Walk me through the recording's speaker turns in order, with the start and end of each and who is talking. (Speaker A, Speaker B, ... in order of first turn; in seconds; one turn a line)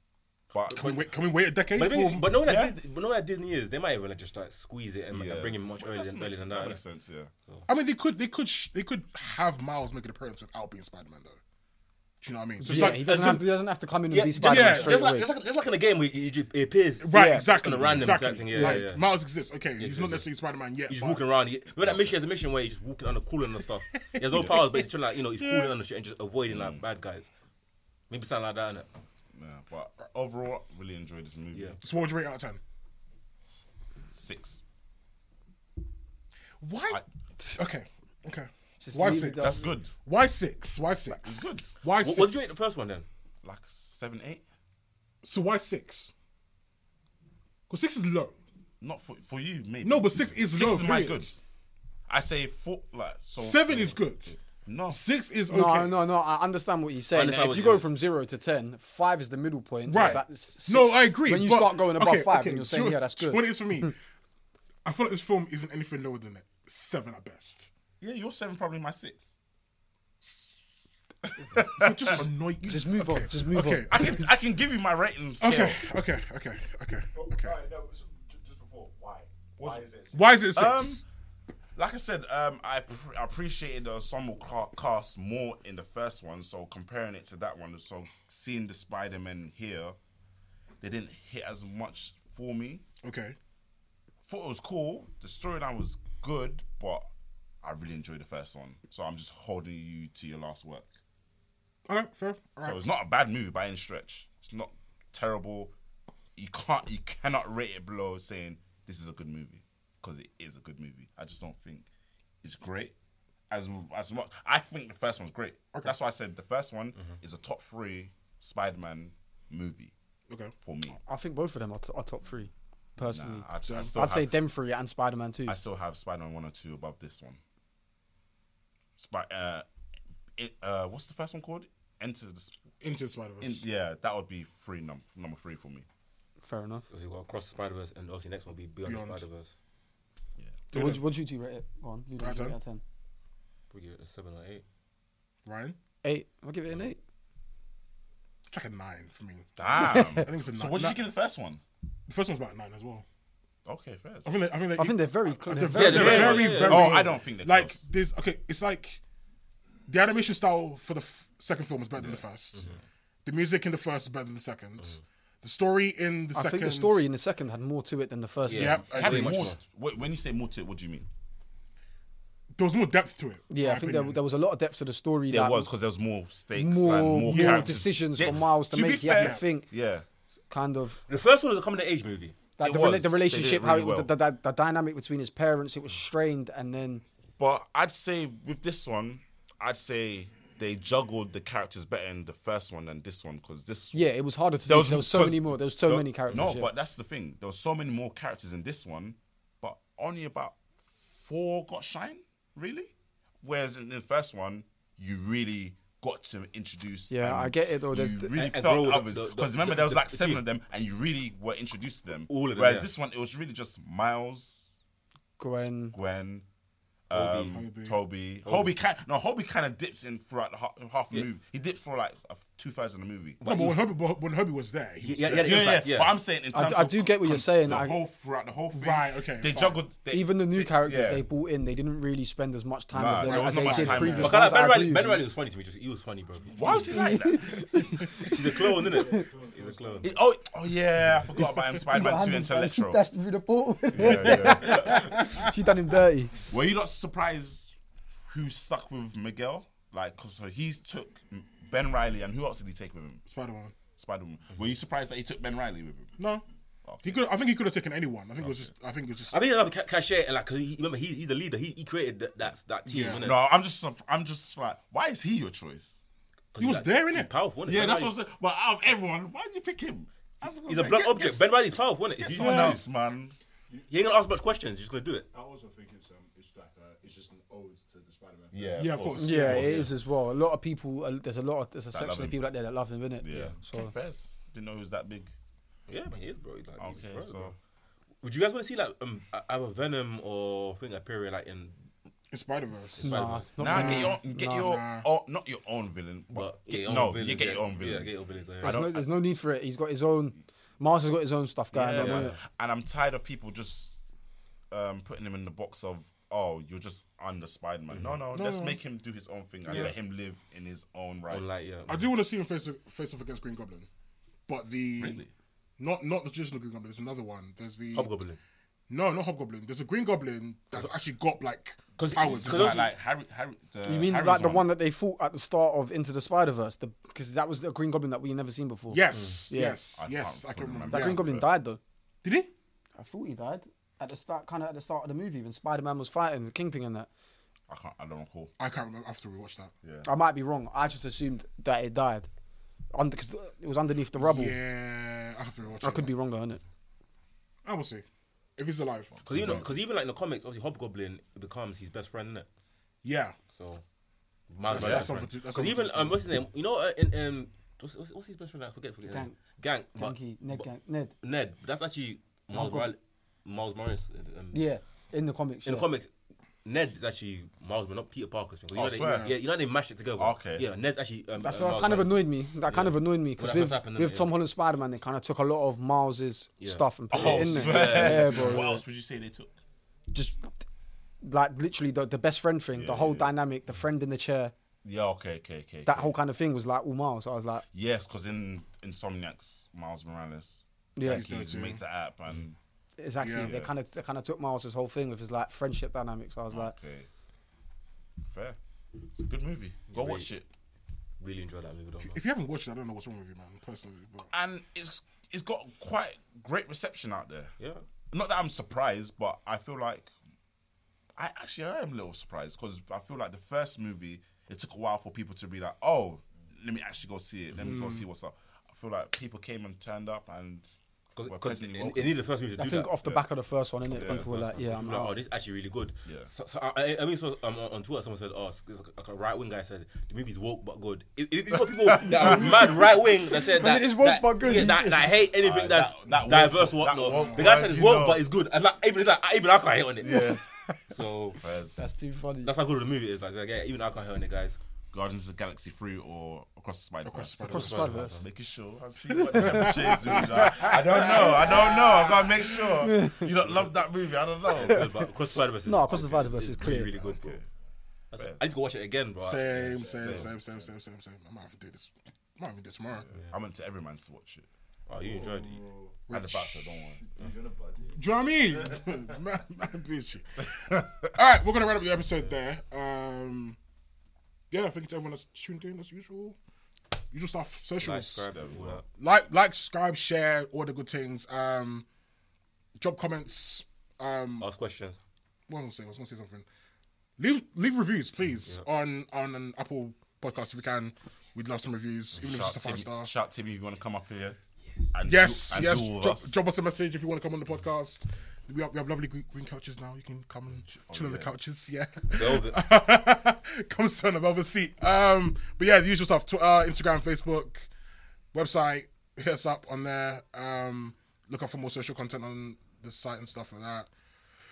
Speaker A: 0.5-1.0
Speaker B: 0.7-1.0
Speaker C: 0.7-2.3
Speaker B: 1.8-6.8
Speaker A: 2.4-2.8
Speaker A: 5.1-7.3
Speaker C: 7.7-11.4
Speaker C: 12.2-13.4
Speaker B: 12.6-13.4
Speaker D: 12.6-15.3
Speaker B: 14.1-19.1
Speaker C: 14.4-15.0
Speaker C: 17.0-21.2
Speaker D: 17.1-17.6
Speaker D: 18.5-18.9
Speaker B: 19.8-20.3
Speaker B: 20.9-27.3
Speaker A: 21.8-22.2
Speaker C: 24.1-24.9
Speaker C: 25.4-25.7
Speaker A: 26.5-26.8
Speaker B: 28.1-28.9
Speaker A: 29.3-31.8
Speaker B: 31.5-31.8
Speaker C: 31.8-32.6
Speaker A: 34.1-34.6
Speaker C: 36.6-37.0
Speaker C: 37.5-42.5
Speaker D: 38.8-39.7
Speaker A: 39.4-39.9
Speaker A: 41.2-41.7
Speaker B: 41.9-43.1
Speaker A: 43.4-44.4
Speaker C: 45.2-46.1
Speaker C: 47.7-48.4
Speaker A: 48.8-51.4
Speaker C: 49.8-51.3
Speaker A: 52.1-54.0
Speaker C: 53.4-54.4
Speaker A: 54.7-55.0
Speaker C: 54.9-56.0
Speaker D: 55.5-63.9
Speaker B: 57.1-57.9
Speaker C: 59.9-64.0
Speaker C: 64.8-67.7
Speaker A: 68.0-69.3
Speaker A: 71.4-72.3
Speaker C: 71.7-74.3
Speaker D: 72.6-74.2
Speaker A: 73.9-75.8
Speaker C: 75.4-77.6
Speaker E: 77.1-80.5
Speaker C: 80.1-81.0
Speaker A: 80.6-81.0
Speaker A: 81.8-90.0
Speaker A: 90.8-92.8
Speaker C: 93.0-93.4
Speaker A: 94.3-97.0
Speaker A: 97.6-100.9
Speaker C: 101.9-102.8
Speaker A: 102.6-105.7
Speaker A: 106.4-111.9
Speaker A: 112.4-113.0
Speaker A: 113.5-119.9
Speaker C: 120.3-120.5
Speaker A: 120.6-121.0
Speaker D: 121.1-125.6
Speaker A: 123.0-124.3
Speaker C: 123.6-124.0
Speaker A: 125.5-127.4
Speaker A: 129.0-129.7
Speaker A: 130.4-132.6
Speaker C: 132.8-133.6
Speaker A: 133.4-135.9
Speaker D: 136.4-136.8
Speaker B: 136.9-139.5
Speaker C: 138.8-139.2
Speaker C: 140.7-141.0
Speaker D: 140.7-142.8
Speaker C: 142.2-142.6
Speaker B: 143.7-144.6
Speaker C: 145.4-145.8
Speaker D: 146.0-147.0
Speaker C: 148.5-151.0
Speaker A: 149.6-151.6
Speaker D: 149.8-150.3
Speaker C: 152.1-153.1
Speaker A: 153.7-154.3
Speaker C: 154.2-159.0
Speaker D: 154.8-156.5
Speaker B: 155.7-157.1
Speaker A: 155.8-157.8
Speaker C: 159.9-162.7
Speaker A: 162.0-162.2
Speaker C: 163.2-167.1
Speaker D: 166.3-168.8
Speaker B: 168.5-169.6
Speaker C: 168.5-169.6
Speaker A: 168.9-171.1
Speaker C: 172.6-174.2
Speaker D: 173.5-175.7
Speaker A: 175.3-180.1
Speaker D: 176.6-179.7
Speaker C: 177.2-177.8
Speaker C: 179.2-179.4
Speaker D: 180.5-181.0
Speaker B: 181.1-182.4
Speaker D: 182.6-187.0
Speaker A: 182.6-184.1
Speaker A: 187.4-194.1
Speaker D: 193.9-196.7
Speaker A: 194.7-214.7
Speaker D: 207.1-208.5
Speaker B: 208.3-210.4
Speaker B: 212.3-212.9
Speaker D: 215.4-215.9
Speaker A: 215.6-216.4
Speaker A: 217.1-223.4
Speaker B: 217.1-217.6
Speaker C: 217.5-218.0
Speaker B: 218.4-218.8
Speaker B: 223.4-223.9
Speaker C: 223.4-225.8
Speaker B: 225.0-226.2
Speaker A: 225.4-231.2
Speaker D: 226.5-228.0
Speaker C: 228.7-229.8
Speaker D: 230.1-235.2
Speaker A: 232.9-234.4
Speaker C: 233.2-234.3
Speaker B: 234.2-237.1
Speaker E: 236.5-237.0
Speaker A: 236.5-237.9
Speaker D: 236.9-238.3
Speaker B: 238.1-240.1
Speaker D: 238.9-239.3
Speaker E: 238.9-240.1
Speaker A: 240.0-243.0
Speaker D: 241.5-246.4
Speaker A: 243.9-245.3
Speaker C: 244.0-245.5
Speaker B: 244.4-245.0
Speaker A: 246.5-247.7
Speaker A: 248.3-253.2
Speaker C: 253.3-253.8
Speaker A: 254.0-256.2
Speaker C: 256.2-256.4
Speaker A: 256.9-257.2
Speaker C: 257.0-259.4
Speaker B: 259.3-263.4
Speaker C: 262.9-263.2
Speaker A: 263.1-266.0
Speaker B: 266.5-268.1
Speaker C: 266.6-267.3
Speaker A: 267.7-271.5
Speaker B: 270.7-272.8
Speaker A: 272.2-273.4
Speaker C: 272.4-272.8
Speaker B: 273.9-275.3
Speaker E: 275.3-279.1
Speaker A: 278.5-279.9
Speaker C: 278.8-279.9
Speaker D: 279.2-283.9
Speaker A: 281.9-282.4
Speaker A: 283.2-285.3
Speaker E: 283.3-283.6
Speaker B: 285.9-287.6
Speaker A: 286.8-287.6
Speaker B: 288.2-291.8
Speaker C: 292.3-295.1
Speaker B: 292.9-293.9
Speaker D: 293.0-294.8
Speaker A: 293.6-299.1
Speaker B: 296.3-298.8
Speaker D: 298.6-302.4
Speaker A: 301.7-304.0
Speaker B: 302.0-302.4
Speaker A: 304.7-311.5
Speaker B: 307.9-308.2
Speaker C: 308.3-308.8
Speaker B: 309.7-309.9
Speaker B: 311.3-312.1
Speaker C: 311.9-313.9
Speaker C: 314.5-315.2
Speaker A: 315.0-315.3
Speaker C: 315.8-318.1
Speaker B: 317.9-318.4
Speaker C: 318.9-322.9
Speaker B: 322.0-322.9
Speaker A: 322.3-324.7
Speaker D: 323.9-329.9
Speaker C: 328.9-331.2
Speaker B: 329.1-329.4
Speaker A: 330.0-331.5
Speaker D: 330.9-331.8
Speaker C: 332.2-332.5
Speaker D: 333.0-337.1
Speaker A: 337.7-338.5
Speaker C: 338.6-339.7
Speaker A: 339.8-340.1
Speaker D: 340.0-342.3
Speaker D: 342.9-344.6
Speaker C: 344.2-346.1
Speaker D: 345.8-346.6
Speaker C: 347.6-348.1
Speaker C: 348.6-349.2
Speaker B: 349.3-352.5
Speaker A: 349.3-349.6
Speaker C: 353.0-353.4
Speaker B: 353.5-353.8
Speaker B: 354.5-360.7
Speaker C: 354.7-356.2
Speaker A: 354.7-355.1
Speaker D: 359.1-359.4
Speaker D: 360.0-361.1
Speaker B: 361.2-364.6
Speaker D: 362.5-362.9
Speaker D: 364.5-365.9
Speaker B: 365.7-366.1
Speaker B: 366.6-374.3
Speaker A: 368.7-369.4
Speaker A: 370.2-370.7
Speaker D: 371.4-378.8
Speaker B: 376.6-378.7
Speaker A: 377.1-379.5
Speaker D: 380.1-380.6
Speaker D: 381.2-384.5
Speaker A: 382.8-383.3
Speaker A: 384.8-386.1
Speaker D: 385.9-387.6
Speaker A: 387.7-392.6
Speaker D: 391.0-391.2
Speaker C: 391.0-391.8
Speaker D: 393.0-396.7
Speaker C: 393.2-393.5
Speaker A: 393.4-393.7
Speaker A: 396.5-397.1
Speaker A: 398.2-398.6
Speaker A: 399.1-400.5
Speaker B: 399.9-400.3
Speaker B: 401.2-402.2
Speaker C: 402.0-404.3
Speaker A: 404.3-407.5
Speaker A: 408.1-410.1
Speaker A: 411.2-420.6
Speaker B: 417.5-417.9
Speaker B: 421.2-422.9
Speaker A: 421.3-422.2
Speaker D: 422.6-425.2
Speaker B: 423.9-440.3
Speaker A: 423.9-424.3
Speaker D: 432.0-432.9
Speaker D: 433.5-435.2
Speaker A: 435.4-438.2
Speaker C: 437.1-437.7
Speaker A: 440.0-440.4
Speaker D: 440.1-440.4
Speaker B: 440.9-441.4
Speaker A: 441.3-441.9
Speaker D: 441.8-442.5
Speaker B: 442.4-444.6
Speaker A: 444.9-455.1
Speaker C: 447.0-447.9
Speaker D: 447.4-448.2
Speaker B: 447.6-448.1
Speaker D: 449.1-450.7
Speaker C: 449.3-452.2
Speaker D: 452.8-453.3
Speaker B: 454.5-457.4
Speaker D: 455.6-456.9
Speaker A: 455.9-457.5
Speaker B: 458.1-459.4
Speaker C: 459.2-463.1
Speaker A: 459.5-460.3
Speaker E: 459.5-460.7
Speaker A: 462.9-464.5
Speaker B: 464.9-465.6
Speaker E: 464.9-466.1
Speaker C: 466.1-466.6
Speaker A: 466.1-467.0
Speaker E: 467.0-469.1
Speaker C: 467.9-473.6
Speaker A: 470.6-471.1
Speaker C: 474.5-476.4
Speaker C: 477.1-478.3
Speaker B: 477.8-478.8
Speaker A: 478.3-478.8
Speaker C: 479.0-481.9
Speaker C: 482.8-484.5
Speaker B: 484.4-485.0
Speaker C: 485.5-486.5
Speaker C: 487.2-493.1
Speaker A: 492.2-494.4
Speaker A: 494.9-496.4
Speaker C: 495.1-507.7
Speaker A: 500.7-501.3
Speaker B: 502.1-502.6
Speaker C: 508.3-513.9